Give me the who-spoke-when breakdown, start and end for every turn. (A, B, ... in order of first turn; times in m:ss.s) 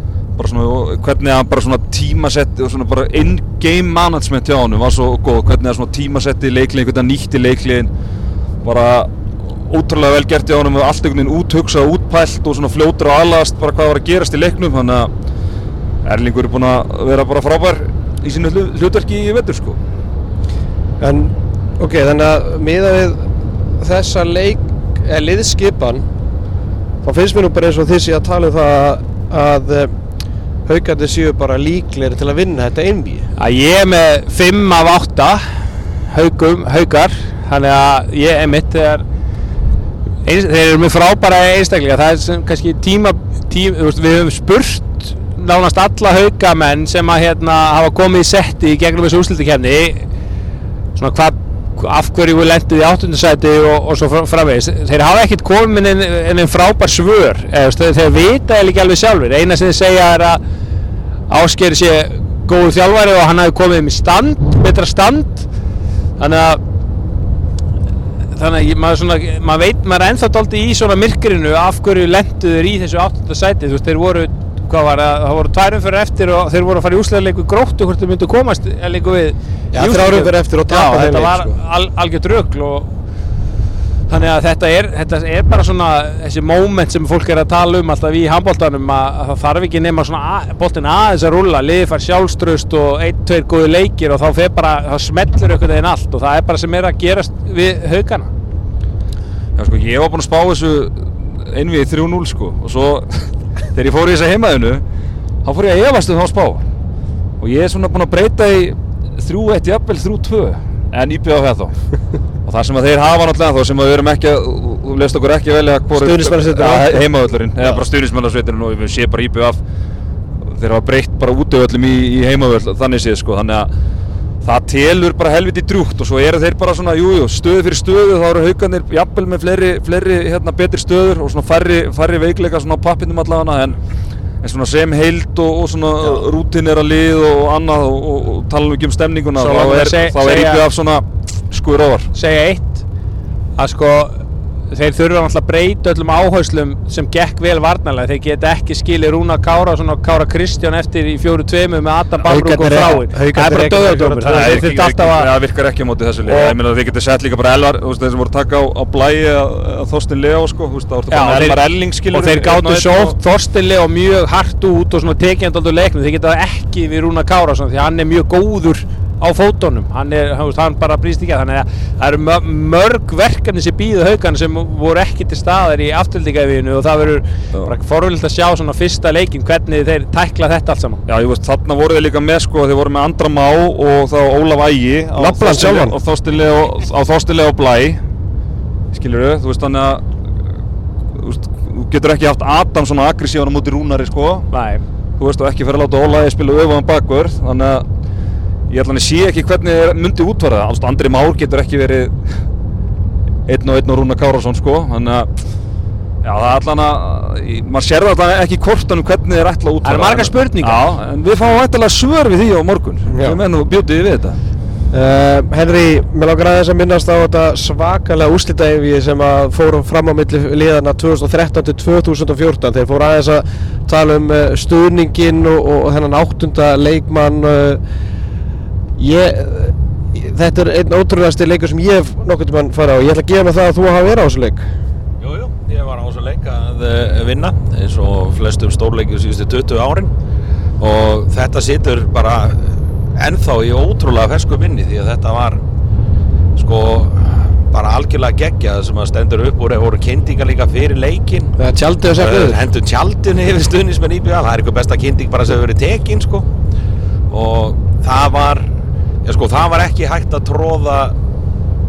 0:00.4-0:07.9 A
0:08.6-0:15.1 A
0:16.0-0:19.8 A
0:21.0-0:23.3 B
0:23.8-0:26.0 B
0:27.0-0:29.9 B
0:30.7-0:33.3 B
0:33.4-0:35.4 C
0:36.1-0:39.0 C
0:40.2-0:50.1 C
0:51.0-1:00.4 C
1:01.3-1:05.5 C
1:06.2-1:06.6 C
1:08.3-1:22.9 C
1:19.7-1:21.6 B
1:24.1-1:38.3 C
1:39.6-1:44.8 A
1:45.4-1:46.6 A
1:47.4-1:51.8 A
1:52.4-1:59.6 A
1:55.9-1:57.1 B
1:57.6-1:57.8 B
2:00.5-2:03.7 A
2:04.4-2:13.8 A
2:14.4-2:22.1 A
2:19.4-2:20.6 C
2:22.1-2:22.8 C
2:23.6-2:24.2 C
2:24.7-2:35.3 C
2:32.2-2:34.6 B
2:34.3-2:43.2 A
2:36.2-2:36.6 C
2:41.1-2:41.6 C
2:42.1-3:01.0 C
3:01.1-3:08.0 A
3:05.2-3:06.0 B
3:08.9-3:10.0 A
3:11.2-3:14.5 A
3:14.5-3:14.8 C
3:15.2-3:17.8 A
3:18.7-3:22.4 A
3:23.5-3:25.3 A
3:26.2-3:34.4 A
3:29.8-3:30.8 C
3:33.1-3:33.4 B
3:34.9-3:47.8 B
3:49.0-3:54.7 B
3:55.2-4:00.1 D
4:00.8-4:05.6 D
4:06.6-4:11.5 D
4:11.6-4:12.6 B
4:12.2-4:16.5 D
4:17.3-4:18.7 D
4:19.2-4:21.2 D